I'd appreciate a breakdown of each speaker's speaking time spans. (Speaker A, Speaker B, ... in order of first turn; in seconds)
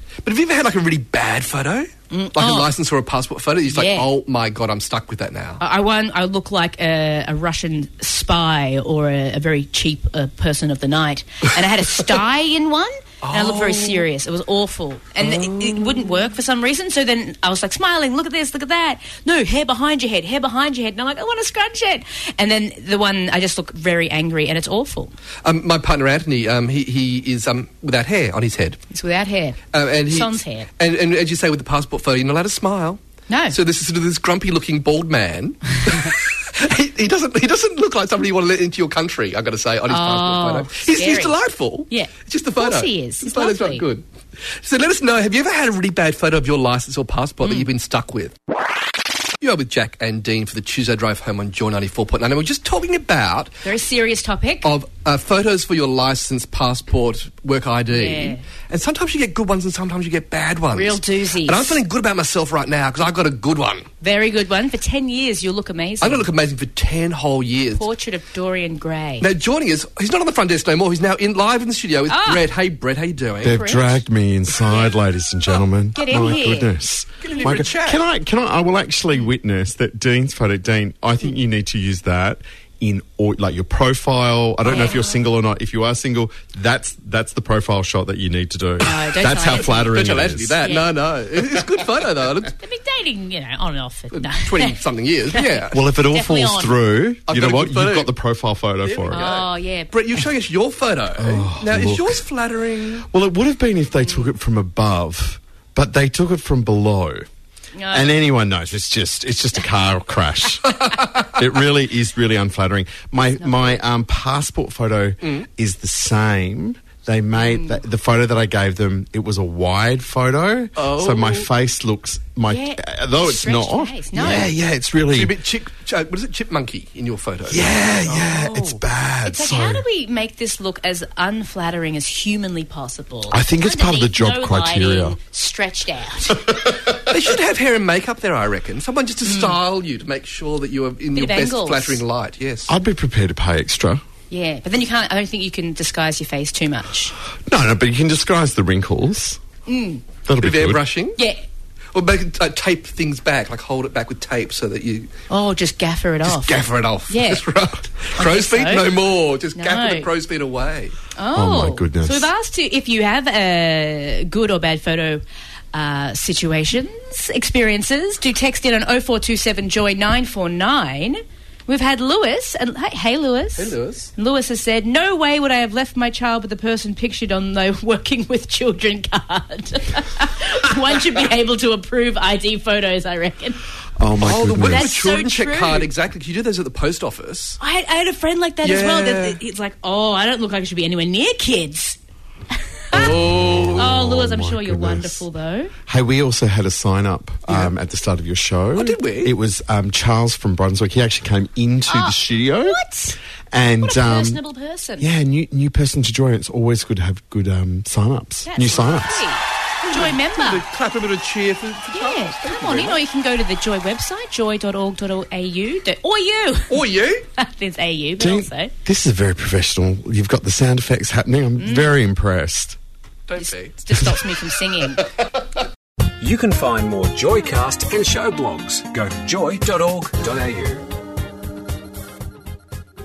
Speaker A: 0.2-5.6, 13.2-14.1, 15.2-16.3, 25.4-28.8, 29.7-44.0, 44.6-48.3, 49.4-53.7, 54.6-63.9, 66.0-67.9, 69.2-73.9, 75.9-76.5, 77.2-78.1, 84.7-85.0, 89.3-92.5, 94.1-96.0, 97.3-98.1, 98.8-103.0, 115.2-115.5, 120.8-121.5, 125.1-128.8, 137.1-142.7, 150.4-151.2, 151.9-155.1, 156.2-160.9, 173.6-174.1, 184.2-187.6, 188.6-189.4, 192.9-193.8, 197.5-197.7, 198.7-199.3, 209.8-213.1, 216.7-217.2, 223.3-224.3
Speaker B: 2.1-2.7, 3.7-4.0, 5.6-25.1, 28.9-29.6, 30.1-30.7, 33.3-33.5, 40.0-41.2, 42.6-43.8, 53.6-54.7, 57.9-58.4, 60.7-61.8, 64.0-66.2, 67.8-69.2, 72.1-72.4, 76.0-76.7, 88.8-89.9, 92.6-94.8, 95.3-96.7, 99.1-100.0, 107.8-108.1, 113.4-113.8, 117.4-117.8, 122.5-124.5, 129.3-136.5, 141.2-142.0, 144.3-147.1, 149.7-150.0, 155.3-157.4, 158.1-158.8, 159.6-160.0, 161.2-183.6, 184.7-185.8, 187.6-192.0, 193.8-195.7, 201.9-202.2, 202.7-203.2, 203.8-205.1, 208.4-210.6, 211.9-216.8, 217.4-218.7, 221.6-221.9, 223.4-225.0
Speaker C: 73.4-90.6, 95.7-99.3, 101.2-102.2, 103.0-107.2, 107.9-125.3, 127.5-129.9, 133.3-135.2, 136.5-136.9, 142.7-144.0, 147.5-149.4, 150.2-150.8, 161.3-162.3, 184.0-184.9, 192.9-195.2, 195.9-202.8, 203.5-204.4, 205.0-209.3, 218.2-222.8, 223.9-224.4
Speaker D: 226.2-230.8